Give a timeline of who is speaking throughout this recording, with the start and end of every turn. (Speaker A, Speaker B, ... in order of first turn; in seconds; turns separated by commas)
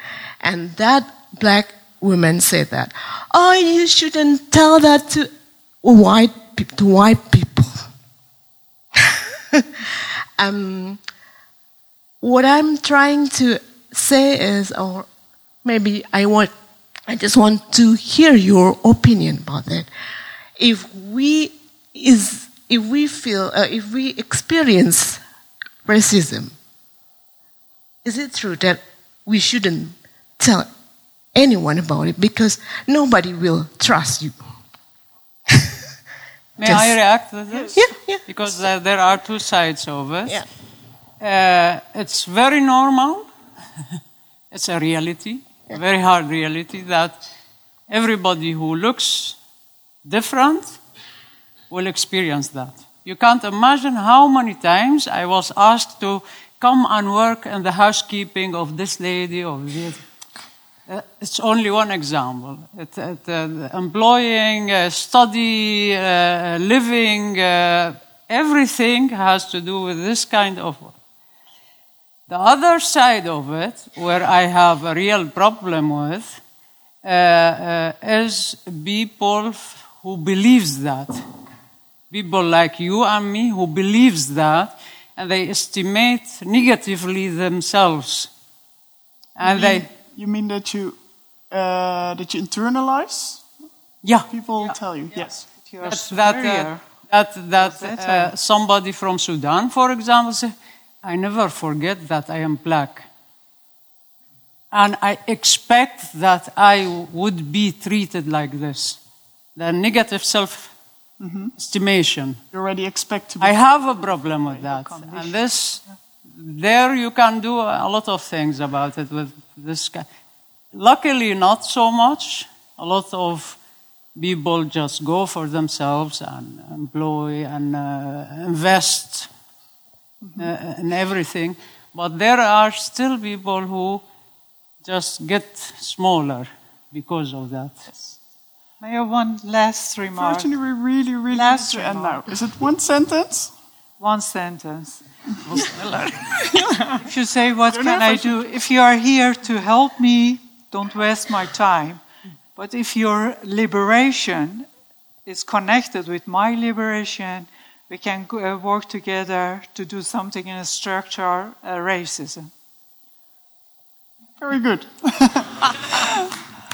Speaker A: 0.4-5.3, Speaker A: 5.8-7.8, Speaker A: 9.5-11.0, Speaker A: 12.2-15.1, Speaker A: 15.6-16.5, Speaker A: 17.1-19.9, Speaker A: 20.6-25.2, Speaker A: 25.9-26.6, Speaker A: 28.1-30.7, Speaker A: 31.4-34.4, Speaker B: 36.6-40.4, Speaker A: 36.6-37.0, Speaker A: 37.7-38.6, Speaker B: 41.2-43.3, Speaker B: 44.5-47.2, Speaker B: 47.9-49.4, Speaker B: 50.0-50.8, Speaker B: 51.7-60.0, Speaker B: 60.9-71.0, Speaker B: 72.3-76.4, Speaker B: 77.0-81.2, Speaker B: 82.1-88.3, Speaker B: 89.4-89.9, Speaker C: 89.4-91.0, Speaker C: 91.5-93.5, Speaker B: 94.0-94.8, Speaker C: 94.3-95.5, Speaker D: 95.7-96.9, Speaker B: 95.8-103.1, Speaker D: 97.5-98.3, Speaker B: 104.7-109.0, Speaker B: 109.6-110.7, Speaker C: 111.2-111.5, Speaker B: 111.6-112.4, Speaker C: 112.5-113.6, Speaker B: 113.4-120.1, Speaker D: 114.0-115.4, Speaker B: 120.7-123.6, Speaker B: 124.2-129.3, Speaker C: 130.2-130.5, Speaker B: 130.4-134.0, Speaker B: 134.8-137.8, Speaker C: 137.9-138.2, Speaker D: 138.8-140.5, Speaker C: 140.1-143.5, Speaker D: 141.3-142.3, Speaker D: 144.0-145.8, Speaker B: 145.5-146.4, Speaker D: 146.9-152.0, Speaker C: 147.7-148.5, Speaker D: 152.6-154.7, Speaker D: 155.3-162.5, Speaker C: 164.4-166.3